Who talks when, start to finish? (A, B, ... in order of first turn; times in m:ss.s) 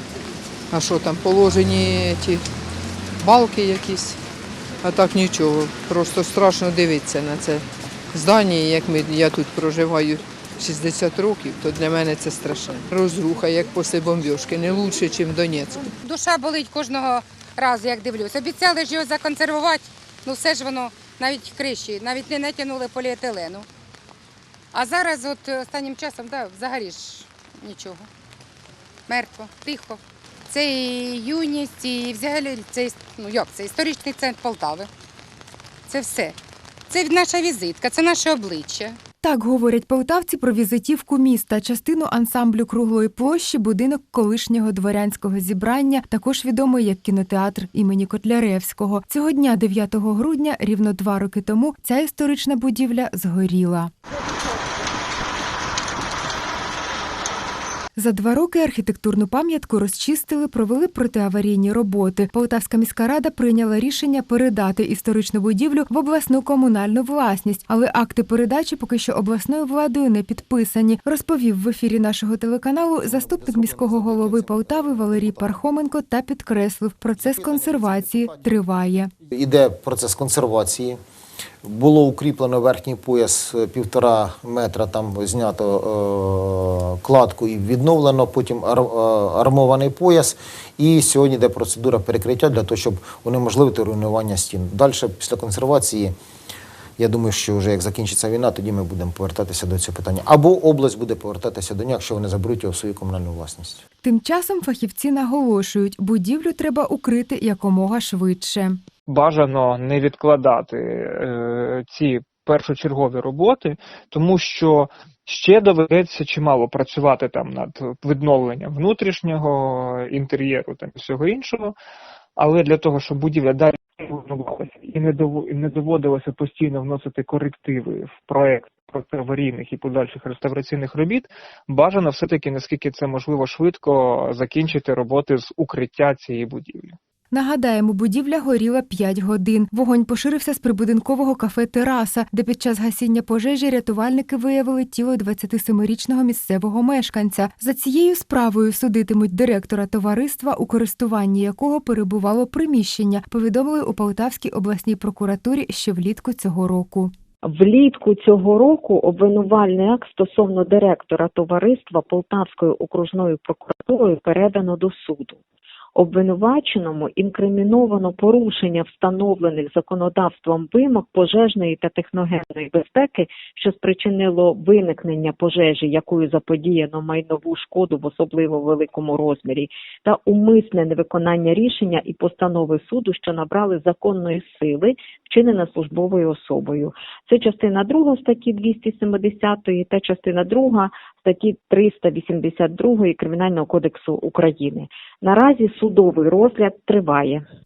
0:00.7-0:02.5 A
0:03.2-0:04.2 A
0:04.8-0:15.9 A
0:16.0-0:23.7 B
0:24.7-0:28.1 B
0:29.1-0:34.9 B
0:35.9-0:36.4 B
0:36.9-0:39.0 B
0:39.2-0:53.9 C
0:58.0-1:19.1 C
1:13.0-1:15.6 D
1:17.2-1:18.6 D
1:19.2-1:21.0 D
1:21.6-1:36.1 D
1:37.0-1:43.8 D
1:44.0-1:48.8 C
1:49.1-2:01.7 E
2:02.4-2:17.0 E
2:17.3-2:37.1 C
2:37.4-2:45.4 F
2:45.9-3:17.4 F